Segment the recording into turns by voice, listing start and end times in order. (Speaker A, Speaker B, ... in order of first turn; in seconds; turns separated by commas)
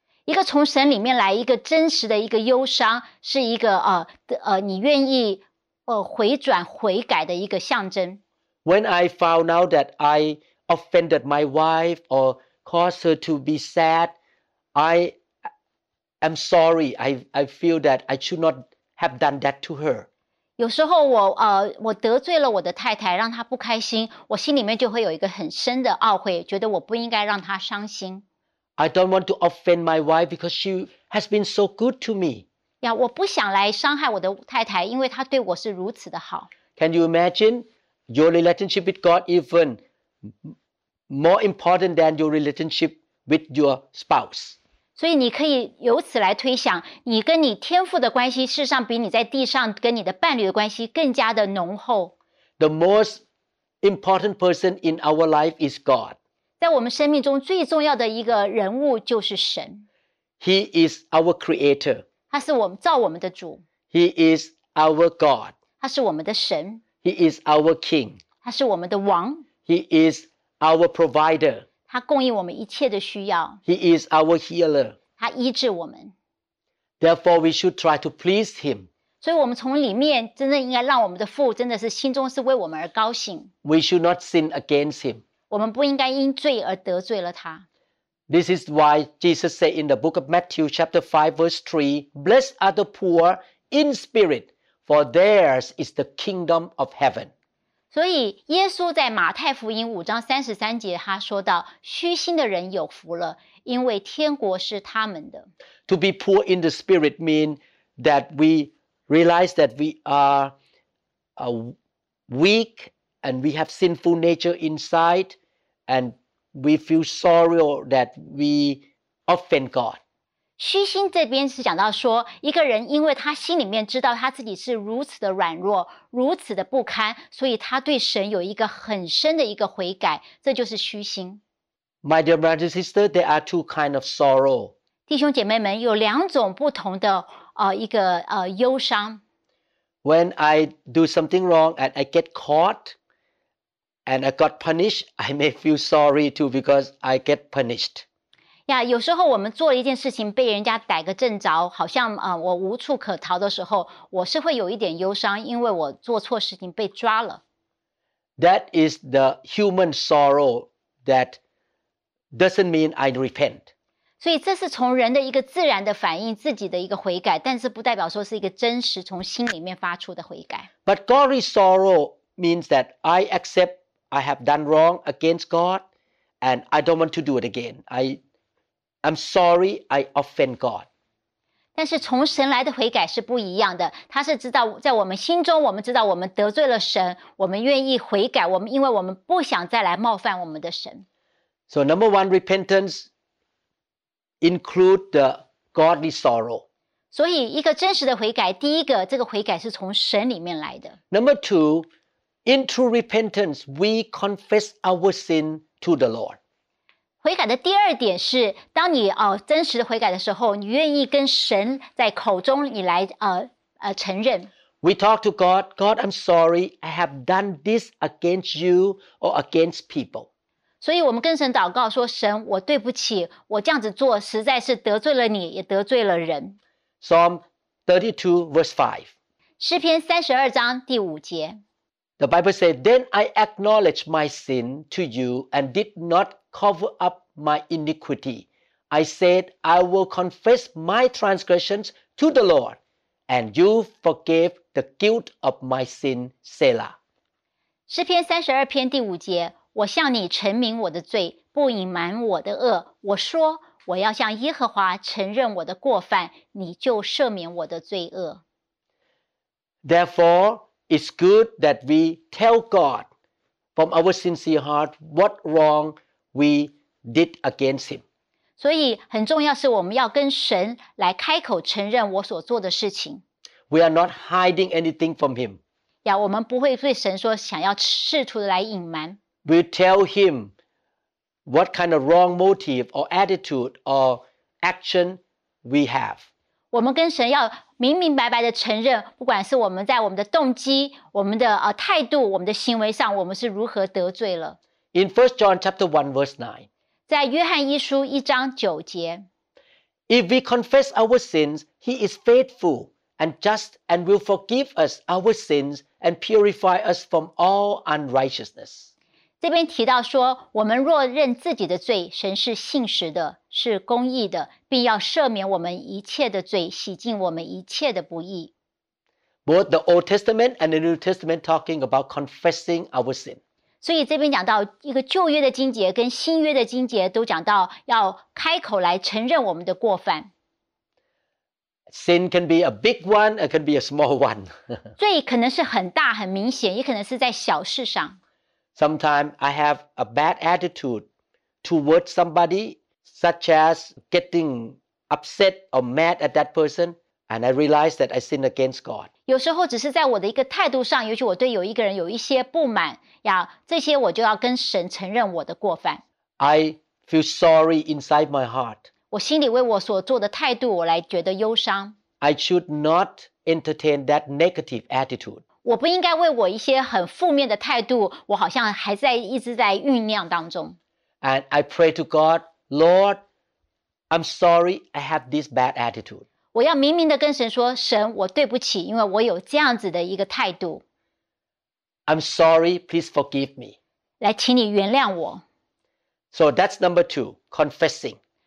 Speaker A: 0.3-8.2, Speaker B: 8.6-14.1, Speaker B: 14.8-15.1, Speaker B: 16.2-20.1, Speaker A: 20.6-28.2, Speaker B: 28.8-32.4, Speaker A: 32.8-36.5, Speaker B: 36.8-39.8, Speaker B: 41.1-44.6, Speaker A: 45.0-52.1, Speaker B: 52.6-53.2, Speaker B: 53.8-56.1, Speaker A: 56.6-59.8, Speaker B: 60.4-62.0, Speaker A: 62.3-63.6, Speaker B: 63.9-65.5, Speaker A: 65.8-66.8, Speaker B: 67.0-68.2, Speaker A: 68.4-69.5, Speaker B: 69.7-71.7, Speaker A: 71.9-73.6, Speaker B: 73.7-75.0, Speaker A: 75.2-76.1, Speaker B: 77.0-78.9, Speaker A: 79.2-83.5, Speaker B: 83.6-85.2, Speaker A: 85.5-87.6, Speaker B: 88.3-97.3, Speaker A: 97.9-105.5, Speaker B: 105.9-110.5, Speaker B: 111.4-111.8, Speaker B: 112.3-115.3, Speaker B: 115.9-120.0, Speaker A: 120.6-131.4, Speaker B: 132.0-134.7, Speaker A: 135.1-139.2, Speaker B: 140.0-142.9, Speaker B: 144.1-148.0, Speaker A: 148.7-157.4, Speaker B: 158.4-161.4, Speaker B: 162.3-163.7, Speaker A: 164.2-170.7, Speaker B: 170.8-175.8, Speaker B: 176.4-178.2, Speaker B: 179.0-180.8, Speaker A: 181.8-191.0, Speaker B: 191.7-193.1, Speaker B: 194.4-196.6, Speaker A: 197.1-201.0, Speaker B: 201.1-201.9, Speaker B: 202.4-206.4, Speaker A: 207.2-214.5, Speaker B: 214.8-220.3, Speaker A: 220.8-226.6, Speaker B: 227.0-229.1, Speaker A: 229.6-231.6, Speaker B: 232.2-242.8, Speaker B: 243.3-246.9, Speaker A: 247.9-258.4, Speaker B: 259.8-263.1, Speaker B: 263.8-268.0, Speaker A: 268.6-273.2, Speaker B: 273.7-275.6, Speaker A: 276.0-279.2, Speaker B: 279.4-280.5, Speaker B: 281.5-286.2, Speaker A: 286.7-294.6, Speaker B: 294.9-296.7, Speaker A: 297.1-299.2, Speaker B: 300.1-308.9, Speaker A: 309.4-318.5, Speaker B: 319.5-323.4, Speaker A: 323.8-330.3, Speaker B: 331.9-334.5, Speaker A: 335.0-338.2, Speaker B: 338.8-341.1, Speaker B: 341.6-349.1, Speaker A: 349.3-356.0, Speaker B: 356.4-358.9, Speaker A: 359.1-362.0, Speaker B: 362.2-365.4, Speaker A: 365.6-370.8, Speaker B: 371.2-373.2, Speaker B: 374.1-376.2, Speaker A: 376.5-380.8, Speaker B: 382.1-383.8, Speaker A: 384.2-385.4, Speaker B: 386.3-388.2